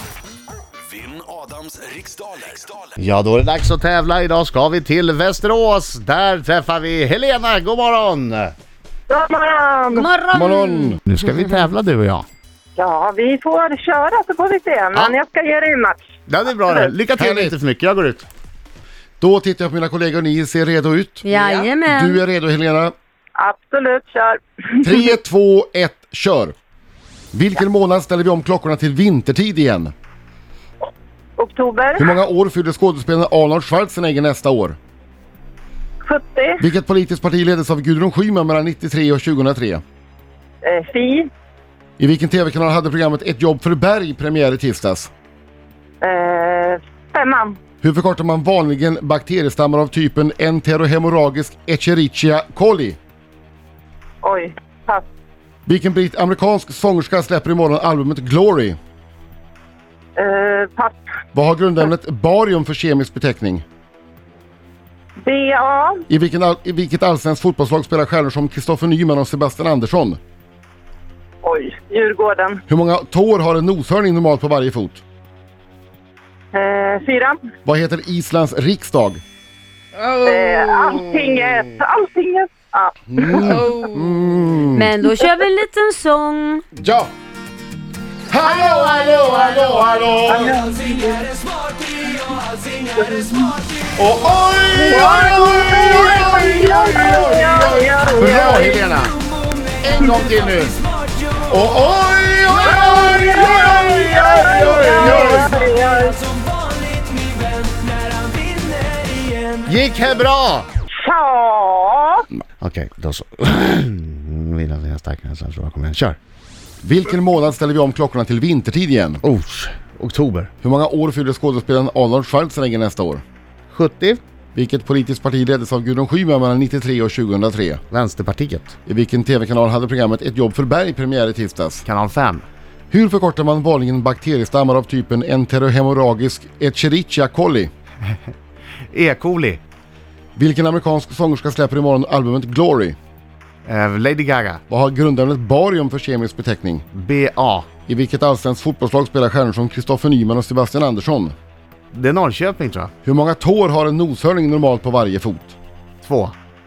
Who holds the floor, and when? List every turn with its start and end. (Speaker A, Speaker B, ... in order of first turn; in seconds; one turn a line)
Speaker A: 0.9-2.8
Speaker B: 3.0-8.5
Speaker C: 9.1-10.1
Speaker D: 9.9-11.0
Speaker E: 10.3-11.0
Speaker B: 11.1-12.2
Speaker C: 12.8-16.1
Speaker B: 16.3-18.3
Speaker E: 17.2-17.6
Speaker E: 19.2-22.9
Speaker D: 21.2-22.2
Speaker C: 23.4-24.9
Speaker E: 24.8-26.5
Speaker E: 27.3-29.9
Speaker C: 31.4-32.1
Speaker E: 32.0-34.8
Speaker C: 36.0-36.6
Speaker E: 36.6-39.8
Speaker C: 40.6-41.3
Speaker E: 42.0-45.1
Speaker C: 46.0-47.6
Speaker E: 47.8-53.0
Speaker C: 54.2-55.0
Speaker E: 55.6-58.8
Speaker C: 60.2-61.0
Speaker E: 61.3-63.6
Speaker C: 65.2-66.0
Speaker E: 66.1-70.2
Speaker C: 71.4-72.6
Speaker E: 72.7-75.0
Speaker C: 76.5-77.4
Speaker E: 77.6-79.2
Speaker E: 80.0-81.0
Speaker C: 80.2-83.8
Speaker E: 83.1-84.9
Speaker D: 84.7-86.6
Speaker E: 86.7-87.1
Speaker E: 88.3-90.5
Speaker D: 88.7-89.3
Speaker C: 90.3-91.3
Speaker C: 92.9-93.5
Speaker E: 94.0-99.1
Speaker C: 94.7-98.7
Speaker E: 99.8-100.8
Speaker E: 101.5-105.5
Speaker C: 102.6-106.2
Speaker B: 109.6-110.7
Speaker C: 111.0-112.2
Speaker B: 112.6-116.2
Speaker E: 116.8-119.2
Speaker B: 119.2-120.5
Speaker E: 120.6-123.2
Speaker B: 123.7-124.2
Speaker E: 124.5-127.8
Speaker B: 127.9-128.8
Speaker E: 128.8-131.8
Speaker B: 131.8-132.4
Speaker E: 132.9-137.7
Speaker B: 138.9-139.6
Speaker E: 140.3-143.0
Speaker B: 143.7-144.6
Speaker E: 144.7-146.8
Speaker B: 146.9-147.7
Speaker E: 147.9-151.3
Speaker B: 151.9-152.9
Speaker E: 153.0-155.5
Speaker B: 156.0-156.3